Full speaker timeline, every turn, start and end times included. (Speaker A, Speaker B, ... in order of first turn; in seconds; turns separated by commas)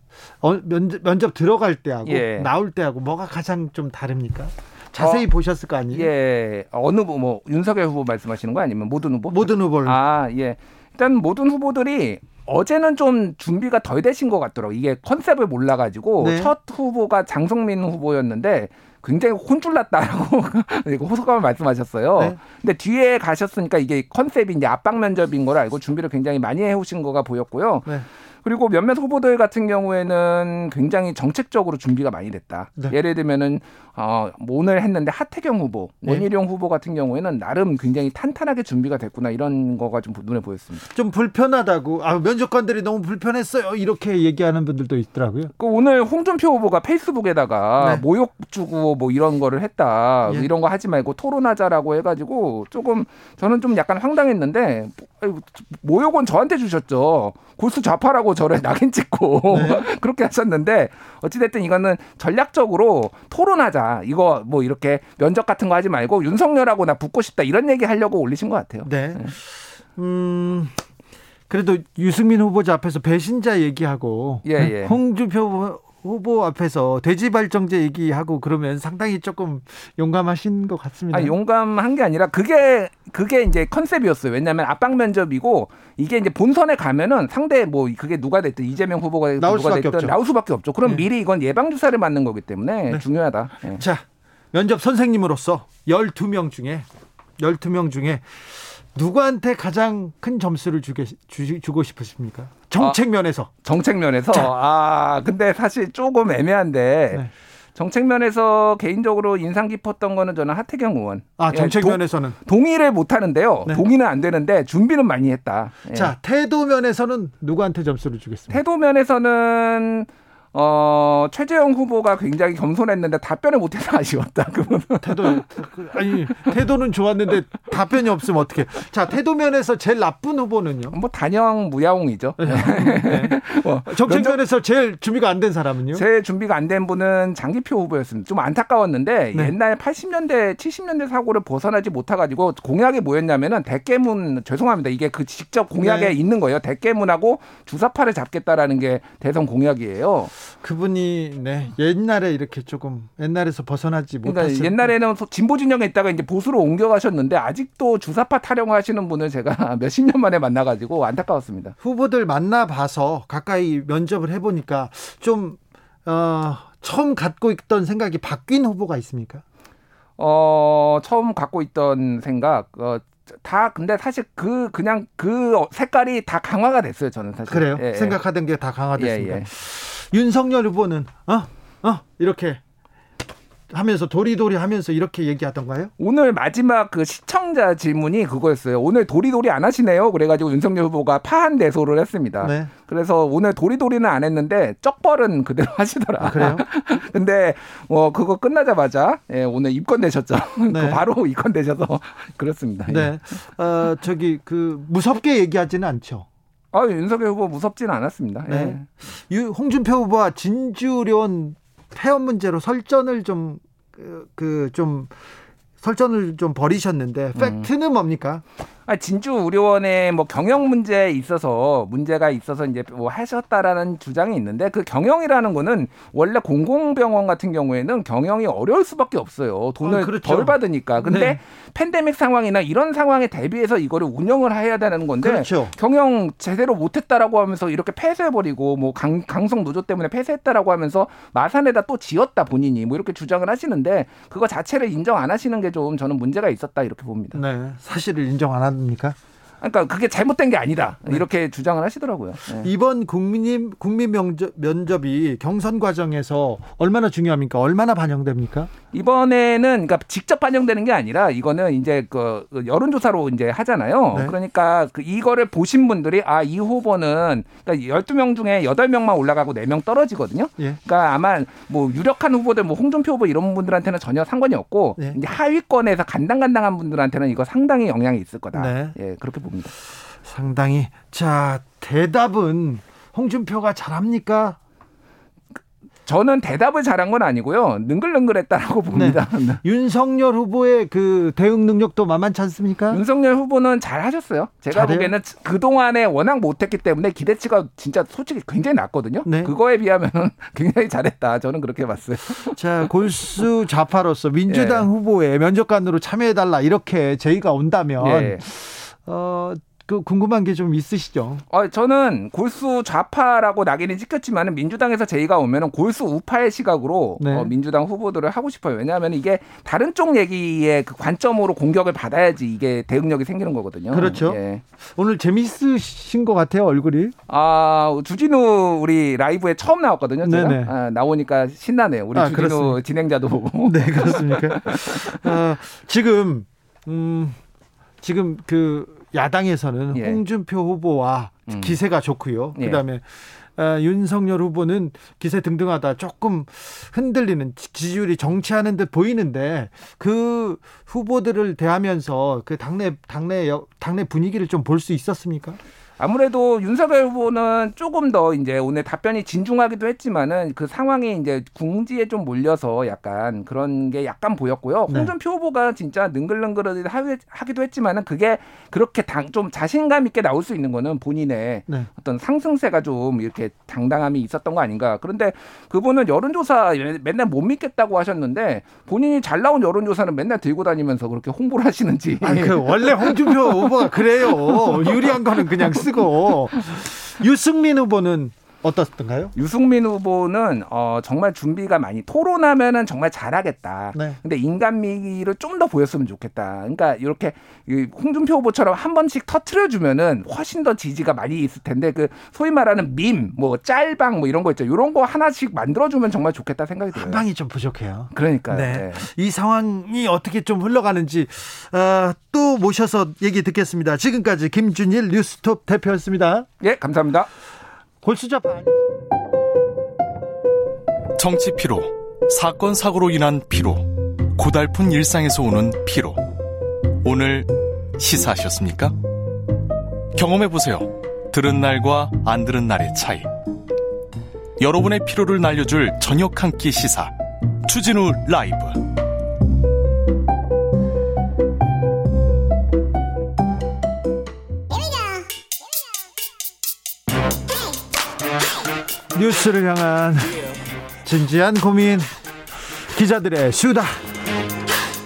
Speaker A: 0.4-6.1, Speaker B: 2.0-2.5, Speaker B: 5.0-5.3, Speaker B: 5.9-27.9, Speaker A: 9.3-10.0, Speaker A: 16.2-16.5, Speaker B: 28.4-40.9, Speaker A: 40.9-45.5, Speaker B: 45.6-69.3, Speaker A: 47.8-48.0, Speaker A: 59.5-59.8, Speaker A: 68.8-70.7, Speaker A: 71.5-81.3, Speaker B: 74.4-75.0, Speaker B: 81.1-93.8, Speaker A: 89.4-90.2, Speaker A: 93.6-96.9, Speaker A: 97.4-103.5, Speaker B: 103.6-116.1, Speaker A: 111.4-112.3, Speaker A: 115.9-118.6, Speaker B: 118.5-125.4, Speaker A: 125.0-130.9, Speaker B: 130.9-134.4, Speaker A: 132.4-136.0, Speaker B: 135.9-150.3, Speaker A: 145.8-146.2, Speaker A: 150.6-154.9, Speaker B: 154.2-161.7, Speaker A: 161.8-169.4, Speaker B: 170.2-178.2, Speaker A: 177.5-182.6, Speaker B: 179.0-179.5, Speaker A: 183.7-185.9, Speaker B: 186.0-203.4, Speaker A: 192.4-192.7, Speaker A: 196.2-196.6, Speaker A: 200.7-201.0, Speaker A: 202.9-206.3, Speaker B: 206.7-208.9, Speaker A: 208.5-215.1, Speaker A: 215.8-218.4, Speaker B: 217.3-217.7, Speaker B: 218.8-247.4, Speaker A: 229.8-231.4, Speaker A: 235.2-235.7, Speaker A: 247.3-249.2, Speaker B: 249.6-252.7, Speaker A: 252.6-258.7, Speaker B: 258.9-279.7, Speaker A: 278.5-278.9, Speaker A: 280.0-284.6, Speaker B: 286.0-289.6, Speaker A: 288.9-293.0, Speaker B: 292.9-302.6, Speaker A: 294.7-295.1, Speaker A: 299.2-299.5, Speaker A: 302.5-311.4, Speaker B: 304.5-304.9, Speaker B: 308.0-308.4, Speaker B: 311.5-324.6, Speaker A: 317.2-317.5, Speaker A: 323.9-327.1, Speaker B: 327.3-335.2, Speaker A: 330.2-330.7, Speaker A: 332.1-332.8, Speaker A: 333.6-337.4, Speaker A: 338.0-355.6, Speaker B: 339.9-340.2, Speaker B: 341.5-341.8, Speaker B: 342.6-342.8, Speaker B: 356.0-383.6, Speaker A: 364.9-365.1, Speaker A: 382.2-389.3, Speaker B: 384.5-385.1, Speaker B: 389.3-407.2, Speaker A: 406.9-416.5, Speaker B: 408.1-409.1, Speaker B: 416.6-417.3, Speaker A: 418.0-418.8, Speaker C: 421.1-426.2, Speaker C: 427.0-428.9, Speaker C: 430.1-433.3, Speaker C: 434.6-437.1, Speaker C: 437.6-438.8, Speaker A: 449.1-450.4, Speaker A: 451.0-452.1, Speaker A: 452.8-454.0